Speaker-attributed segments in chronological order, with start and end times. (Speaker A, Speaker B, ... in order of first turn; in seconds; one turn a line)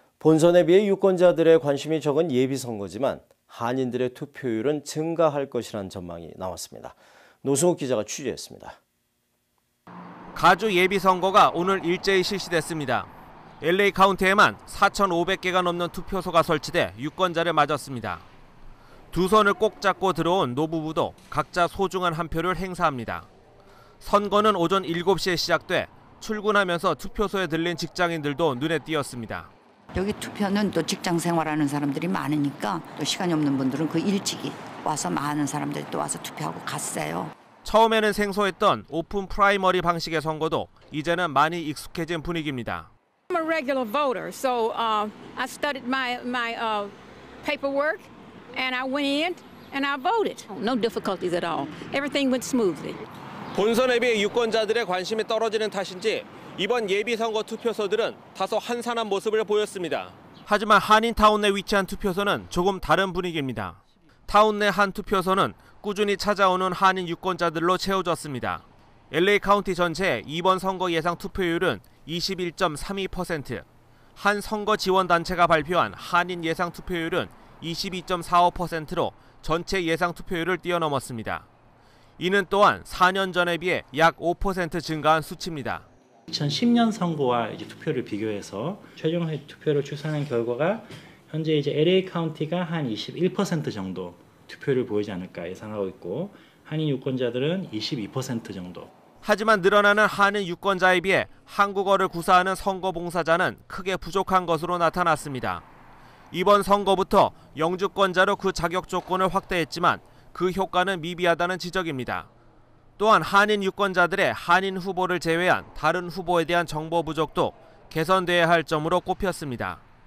Speaker A: 0.2-8.8
Speaker B: 10.3-13.1
Speaker B: 13.6-18.2
Speaker B: 19.1-23.3
Speaker B: 24.0-29.5
Speaker C: 29.9-37.3
Speaker B: 37.6-42.9
Speaker D: 43.3-53.0
Speaker B: 53.5-73.6
Speaker B: 74.2-81.5
Speaker B: 82.2-85.8
Speaker E: 86.3-98.9
Speaker B: 99.2-105.6
Speaker B: 106.3-112.3
Speaker B: 113.0-119.8